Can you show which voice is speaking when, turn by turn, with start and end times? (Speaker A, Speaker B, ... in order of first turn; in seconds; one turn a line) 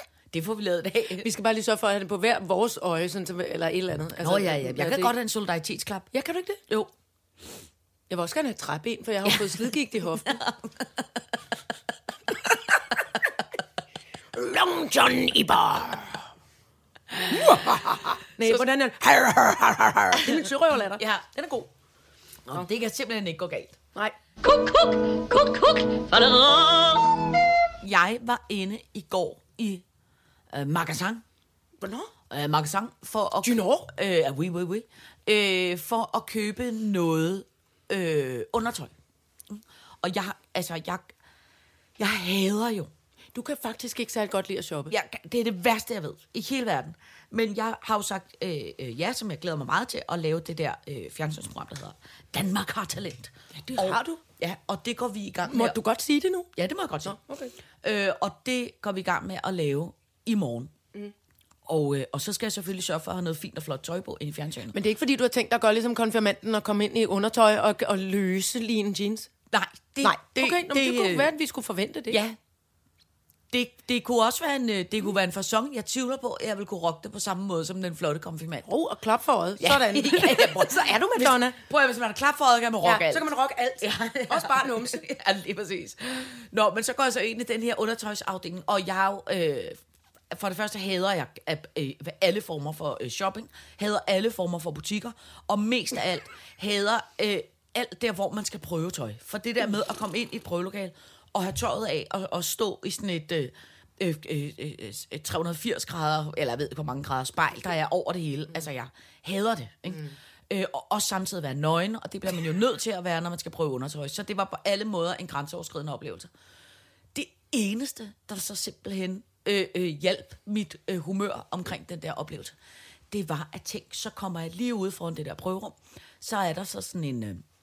Speaker A: 0.3-1.3
Speaker B: 1.2-5.1
Speaker A: 4.2-6.1
Speaker B: 6.1-6.6
Speaker B: 8.1-10.4
Speaker A: 9.2-10.8
Speaker B: 14.3-16.2
Speaker A: 17.2-17.8
Speaker B: 17.3-21.0
Speaker A: 20.2-21.7
Speaker A: 22.5-23.8
Speaker A: 24.4-29.8
Speaker A: 30.5-31.2
Speaker B: 31.8-32.1
Speaker A: 32.3-38.9
Speaker B: 33.4-33.9
Speaker A: 39.5-41.1
Speaker A: 42.0-42.9
Speaker B: 43.3-44.9
Speaker A: 44.9-55.8
Speaker B: 53.6-54.2
Speaker B: 55.5-56.5
Speaker A: 56.6-57.2
Speaker B: 57.0-57.5
Speaker A: 57.8-60.7
Speaker A: 61.7-64.8
Speaker B: 64.7-69.3
Speaker A: 69.5-71.3
Speaker B: 70.0-72.2
Speaker A: 72.1-72.4
Speaker A: 73.5-78.7
Speaker B: 78.7-81.6
Speaker A: 79.6-89.8
Speaker B: 82.8-85.0
Speaker A: 90.3-116.3
Speaker A: 117.1-122.6
Speaker A: 123.1-127.4